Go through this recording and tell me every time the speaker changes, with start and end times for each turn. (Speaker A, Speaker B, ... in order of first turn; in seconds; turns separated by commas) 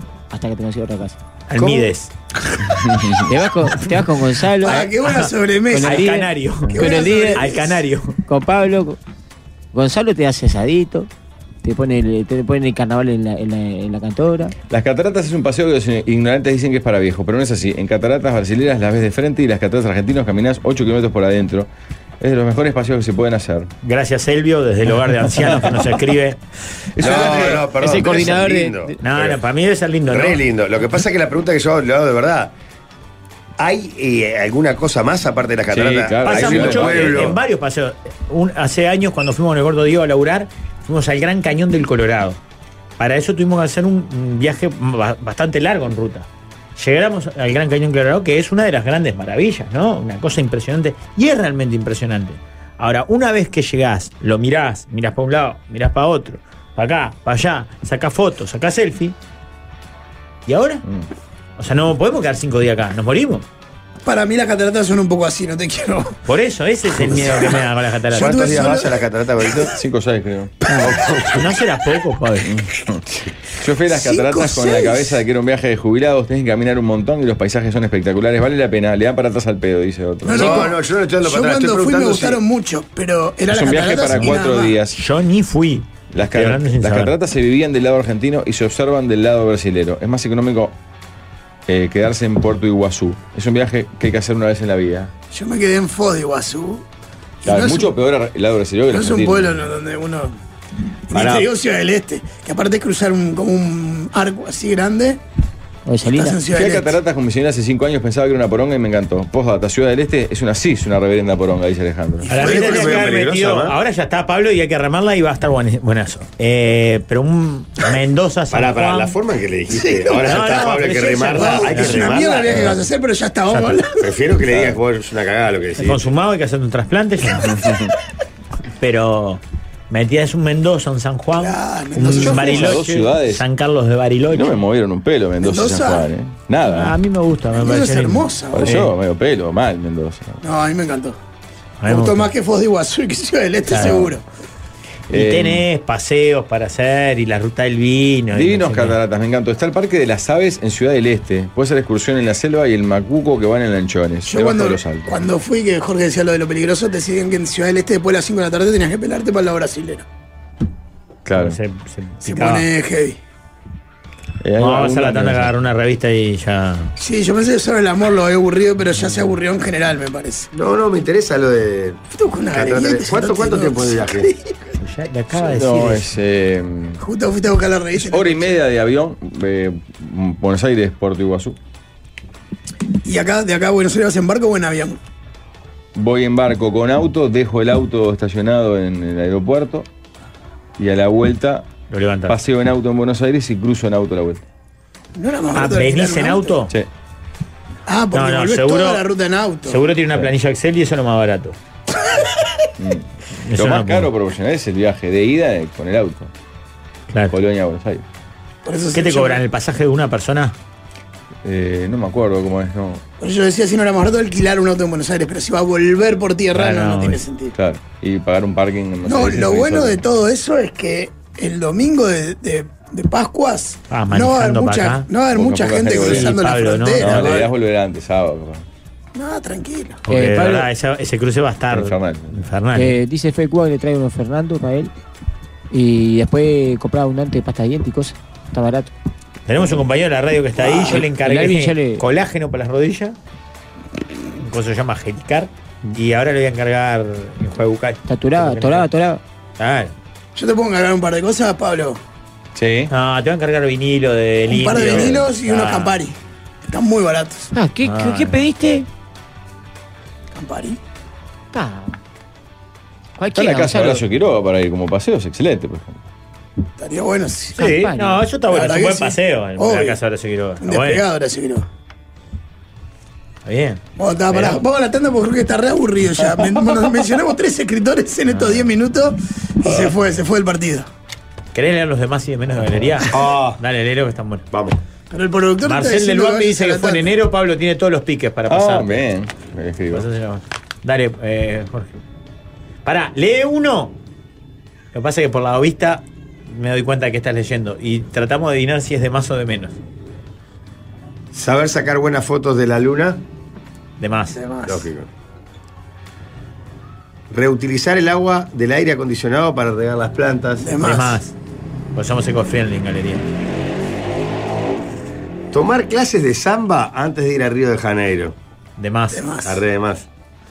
Speaker A: 0.3-1.2, Speaker B: 1.5-2.1, Speaker C: 2.8-3.2, Speaker A: 3.2-4.9, Speaker D: 4.6-6.1, Speaker B: 4.7-5.3, Speaker A: 5.7-7.5, Speaker B: 5.8-8.2, Speaker D: 6.7-7.8, Speaker A: 8.2-9.0, Speaker A: 9.7-11.1, Speaker A: 11.6-14.5, Speaker C: 14.7-21.7, Speaker C: 22.2-23.7, Speaker B: 23.8-26.4, Speaker C: 25.3-25.9, Speaker C: 26.9-27.7, Speaker E: 27.0-29.3, Speaker B: 27.0-27.6, Speaker A: 27.1-29.0, Speaker B: 29.0-30.4, Speaker E: 30.1-32.5, Speaker E: 33.6-37.4, Speaker C: 35.7-37.3, Speaker B: 36.2-42.4, Speaker B: 43.0-59.1, Speaker B: 60.5-60.8, Speaker B: 61.6-63.5, Speaker D: 64.0-66.1, Speaker B: 66.2-68.6, Speaker E: 68.1-69.7, Speaker D: 68.1-69.0, Speaker C: 69.6-70.5, Speaker E: 70.8-71.5, Speaker B: 71.3-72.5, Speaker C: 72.4-80.6, Speaker D: 73.9-75.2, Speaker D: 80.2-84.8, Speaker E: 80.3-82.4, Speaker C: 83.5-85.0, Speaker B: 84.1-87.1, Speaker C: 86.1-90.7, Speaker C: 91.7-95.1, Speaker D: 95.3-96.8, Speaker D: 97.4-97.9, Speaker C: 97.4-99.7, Speaker D: 98.9-100.4, Speaker D: 101.1-105.2, Speaker E: 101.1-101.5, Speaker A: 105.8-106.4, Speaker D: 106.1-107.0, Speaker C: 106.5-112.5, Speaker B: 112.3-119.2, Speaker D: 112.3-113.0, Speaker E: 112.3-113.8, Speaker E: 118.5-122.8, Speaker D: 119.7-120.6, Speaker B: 120.1-122.7, Speaker D: 121.1-124.0, Speaker B: 123.5-123.8, Speaker E: 124.0-126.1, Speaker B: 125.8-127.5, Speaker C: 127.4-127.9, Speaker B: 128.8-134.6, Speaker D: 131.4-132.7, Speaker C: 132.0-133.4, Speaker C: 134.3-136.9, Speaker D: 135.4-136.1, Speaker B: 136.7-138.9, Speaker D: 137.5-138.8, Speaker C: 138.5-140.4, Speaker D: 140.4-141.2, Speaker B: 141.8-142.3, Speaker D: 141.9-144.2, Speaker B: 143.7-144.0, Speaker C: 143.8-144.1, Speaker C: 145.1-145.6, Speaker B: 145.1-149.0, Speaker C: 148.3-155.2, Speaker D: 154.3-160.0, Speaker C: 161.2-161.6, Speaker B: 161.3-162.7, Speaker D: 162.2-163.2, Speaker C: 164.4-165.5, Speaker B: 164.6-166.9, Speaker D: 167.0-170.5, Speaker E: 170.5-172.0, Speaker D: 172.1-174.7, Speaker E: 172.5-174.3, Speaker B: 174.8-176.1, Speaker C: 175.3-177.0, Speaker D: 177.0-178.6, Speaker C: 178.0-181.6, Speaker D: 183.0-185.0, Speaker C: 185.9-189.9, Speaker C: 190.8-191.7, Speaker B: 191.9-192.4, Speaker C: 192.3-194.4, Speaker D: 195.2-196.6, Speaker B: 195.5-196.7, Speaker D: 197.9-199.8, Speaker B: 198.1-199.0, Speaker B: 199.6-201.6, Speaker C: 202.8-206.3, Speaker B: 203.4-204.1, Speaker C: 207.3-208.0, Speaker D: 208.6-209.4, Speaker B: 208.9-210.5, Speaker C: 211.4-213.0, Speaker D: 213.2-217.5, Speaker B: 216.5-217.2, Speaker C: 217.5-220.0, Speaker D: 219.0-227.5, Speaker B: 223.9-225.1, Speaker C: 225.3-228.6, Speaker B: 226.0-227.4, Speaker D: 229.1-230.0, Speaker A: 230.1-230.7, Speaker B: 230.1-232.9, Speaker C: 231.7-232.3, Speaker A: 232.7-234.9, Speaker A: 235.7-238.9, Speaker B: 239.5-243.2, Speaker A: 240.7-242.0, Speaker D: 240.8-241.0, Speaker B: 244.4-248.9, Speaker A: 248.1-249.2, Speaker B: 249.6-249.9, Speaker D: 250.3-252.0, Speaker C: 252.5-252.9, Speaker B: 252.9-256.0, Speaker D: 254.5-256.1, Speaker C: 254.9-255.2, Speaker D: 256.6-257.5, Speaker A: 257.5-258.9, Speaker B: 257.8-258.5, Speaker D: 260.3-260.8, Speaker A: 261.5-262.0, Speaker A: 263.2-264.0, Speaker C: 263.3-266.0, Speaker D: 266.8-267.6, Speaker B: 267.6-271.0, Speaker A: 267.6-268.3, Speaker D: 268.5-270.0, Speaker D: 270.6-271.6, Speaker B: 273.4-274.6, Speaker D: 274.0-280.9, Speaker B: 278.3-278.7, Speaker B: 281.5-284.4, Speaker E: 283.1-283.6, Speaker E: 284.5-284.8, Speaker D: 285.1-287.1, Speaker B: 285.6-289.1, Speaker C: 288.5-290.1, Speaker B: 289.9-291.9, Speaker B: 292.8-293.9, Speaker B: 294.9-299.7, Speaker E: 301.3-303.2, Speaker B: 304.0-304.4, Speaker D: 304.4-304.8, Speaker E: 304.6-305.1, Speaker E: 307.3-310.8, Speaker D: 310.6-311.2, Speaker B: 310.8-311.3, Speaker B: 311.9-313.3, Speaker E: 315.5-318.4, Speaker B: 318.8-319.2, Speaker D: 319.1-319.6, Speaker E: 319.4-320.1